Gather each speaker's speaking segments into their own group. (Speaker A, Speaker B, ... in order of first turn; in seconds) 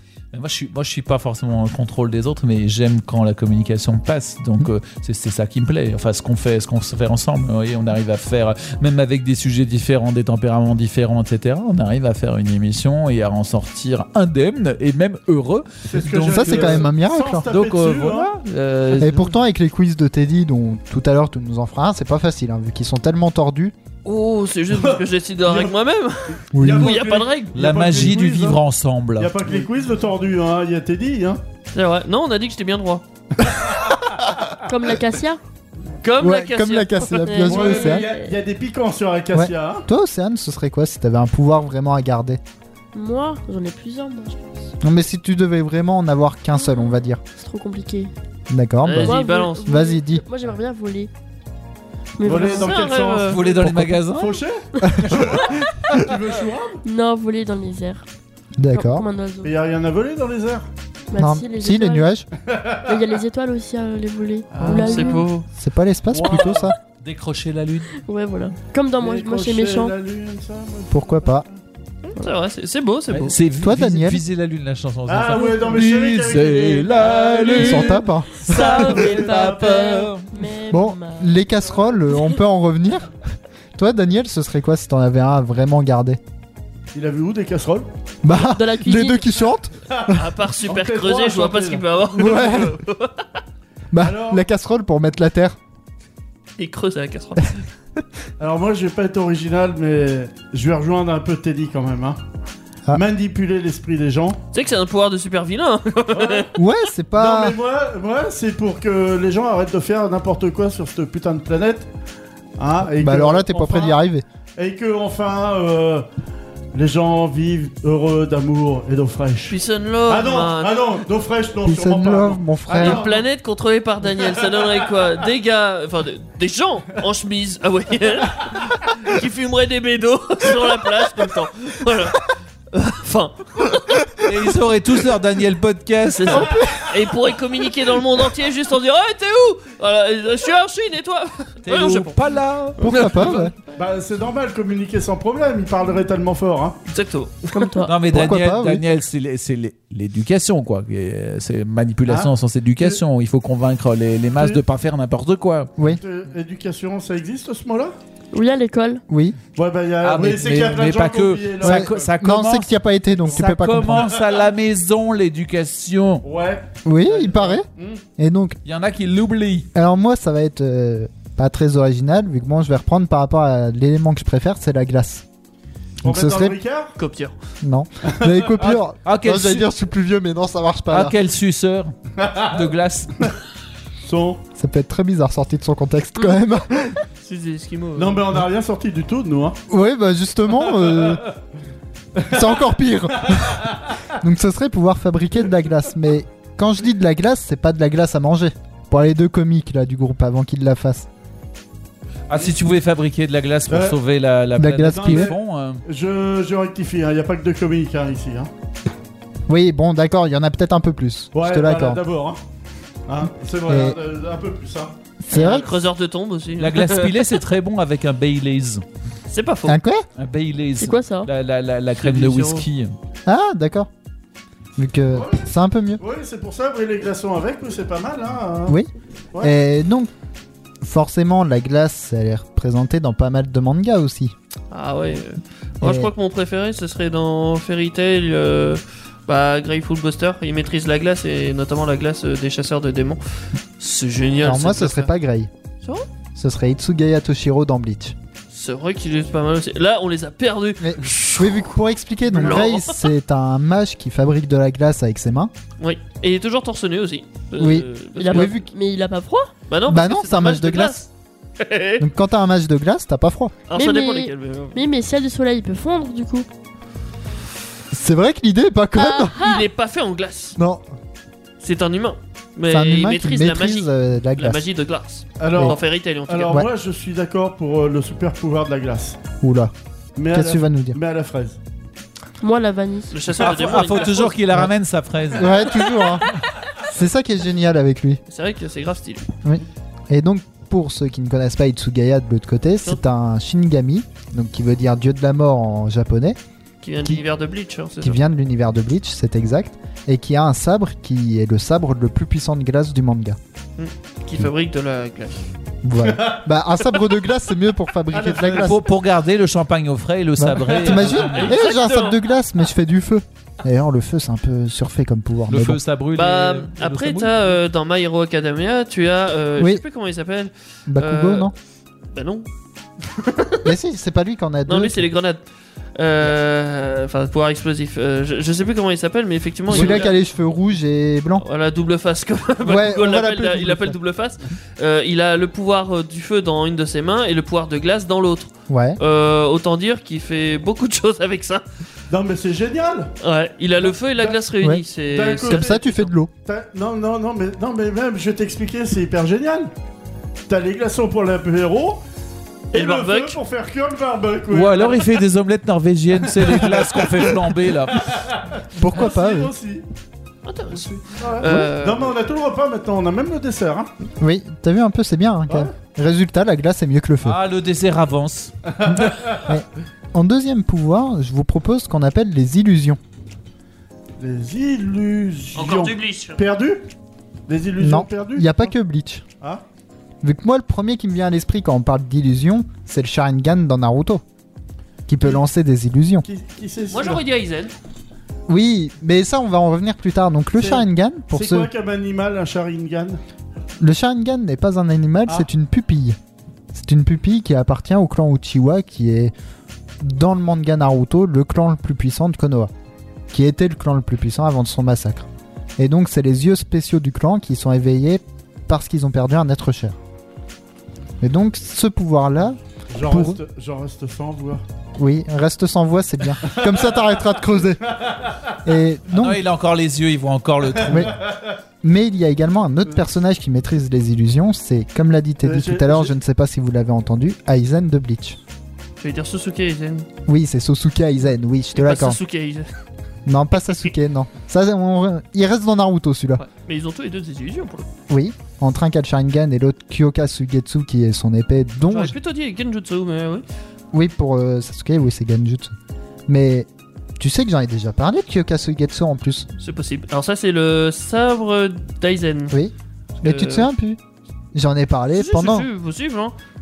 Speaker A: 0.3-16.9, 17.5-19.3, 27.5-29.3, 53.2-54.4, 67.0-67.9, 73.1-80.3, 134.2-136.5, 141.7-143.3, 147.9-155.7, 160.0-162.7, 163.3-166.2, 168.6-169.7, 179.0-179.7, 180.9-183.3, 202.3-205.8, 216.6-218.8, 220.2-222.9, 283.4-285.6, 308.6-311.5, 315.5-317.5, 354.5-358.1, 367.2-368.5, 419.1-421.1
Speaker B: 15.8-18.3, 24.7-25.7, 26.5-28.6, 29.2-31.4, 33.4-34.0, 37.4-39.8, 52.2-56.8, 59.4-60.7, 62.5-62.9, 64.5-65.2, 66.1-66.7, 69.0-71.6, 75.1-80.1, 86.9-87.9, 89.9-91.8, 94.0-94.4, 98.4-102.2, 102.9-104.4, 106.1-106.6, 107.2-111.9, 112.6-114.0, 114.6-116.1, 116.7-123.2, 143.7-146.8, 152.1-153.0, 155.8-157.9, 159.6-162.1, 163.2-164.2, 166.2-168.0, 176.0-176.9, 178.1-178.8, 182.2-182.6, 184.0-184.4, 188.0-189.6, 190.8-191.2, 203.7-204.0, 204.8-208.5, 211.3-212.4, 213.1-214.9, 225.1-228.8, 275.4-279.2, 280.2-281.6, 306.0-306.4, 308.1-308.8, 310.8-311.2, 342.1-343.1, 343.8-344.4, 345.0-345.8, 346.4-349.7, 350.5-352.0, 352.7-355.1, 356.2-359.8, 361.1-363.9, 368.8-369.4, 374.2-376.9, 377.5-378.7, 386.2-387.2, 390.6-393.2, 412.9-414.6, 416.4-416.9, 420.8-421.4, 425.4-426.1
Speaker C: 16.2-17.5, 18.9-23.7, 26.5-27.0, 36.2-38.1, 39.3-42.4, 44.8-47.2, 48.5-50.2, 53.6-54.0, 54.8-55.9, 58.6-59.0, 61.2-62.3, 65.5-66.8, 70.9-71.5, 73.6-74.2, 77.5-78.5, 80.7-83.1, 83.7-86.2, 88.2-90.2, 92.2-92.8, 93.9-95.6, 106.5-107.6, 112.8-114.2, 121.6-123.0, 136.3-137.1, 142.8-143.5, 148.1-148.8, 159.1-159.4, 161.6-164.1, 166.8-167.7, 168.2-168.6, 169.7-175.2, 176.0-176.6, 177.6-181.2, 184.6-187.0, 189.7-191.2, 192.3-201.1, 204.6-205.3, 209.5-212.0, 213.7-214.0, 215.3-215.7, 219.7-220.1, 223.2-223.9, 224.8-226.0, 229.4-230.1, 230.8-234.3, 235.8-236.1, 244.4-245.5, 246.3-248.1, 250.8-255.5, 257.6-258.7, 259.9-261.0, 262.0-263.6, 267.9-269.4, 270.6-270.8, 272.7-274.6, 279.4-279.7, 280.3-281.0, 285.3-286.3, 286.8-288.2, 289.4-296.4, 298.0-303.4, 305.8-308.8, 310.4-315.8, 319.6-319.8, 320.9-321.5, 323.6-325.1, 329.7-331.4, 332.6-334.0, 338.7-339.0, 345.4-346.3, 358.8-359.5, 361.4-361.7, 364.2-367.4, 368.9-373.0, 377.8-379.2, 380.2-384.2, 385.1-386.2, 388.5-391.7, 393.8-396.2, 396.7-399.3, 400.0-402.7, 403.3-405.2, 405.8-410.0, 411.2-413.4, 414.9-417.9, 418.6-419.4, 420.9-421.2, 421.8-428.4, 430.3-432.2, 433.2-436.4, 438.1-442.1, 443.9-445.7, 446.3-449.5, 452.5-454.0, 454.5-455.7
Speaker D: 24.0-27.6, 31.7-33.0, 36.0-37.4, 48.8-49.6, 52.3-53.4, 64.6-65.5, 72.1-73.4, 90.1-93.4, 96.6-97.6, 104.5-106.5, 119.5-120.8, 122.8-134.3, 136.1-142.2, 142.9-143.5, 146.9-147.8, 176.9-177.3, 187.2-188.2, 215.3-217.3, 219.3-219.8, 222.0-222.7, 234.7-243.2, 243.8-245.1, 248.5-251.7, 252.3-253.1, 255.8-258.5, 259.7-262.1, 263.7-264.8, 269.3-270.6, 271.6-276.6, 283.1-284.4, 288.3-289.3, 296.8-298.2, 303.8-305.4, 311.2-312.2, 316.1-321.5, 322.1-322.5, 323.0-323.7, 324.7-325.4, 325.9-330.1, 331.4-341.6, 343.2-346.1, 352.7-353.4, 360.4-362.1, 375.5-376.4, 386.9-387.7, 429.0-430.1, 431.7-432.7, 436.4-437.9, 441.8-443.4, 449.6-452.6, 453.2-453.7, 455.1-456.3
Speaker E: 34.7-35.4, 37.2-38.4, 42.9-44.7, 47.4-48.1, 49.0-51.1, 52.2-52.9, 54.8-55.1, 56.8-58.0, 58.7-59.5, 61.1-62.1, 62.8-65.3, 68.0-69.9, 75.3-75.8, 78.3-79.8, 80.3-81.5, 88.3-89.2, 147.5-148.0, 158.3-159.0, 220.8-221.3, 258.2-259.5, 263.7-266.4, 269.0-269.6, 282.4-283.1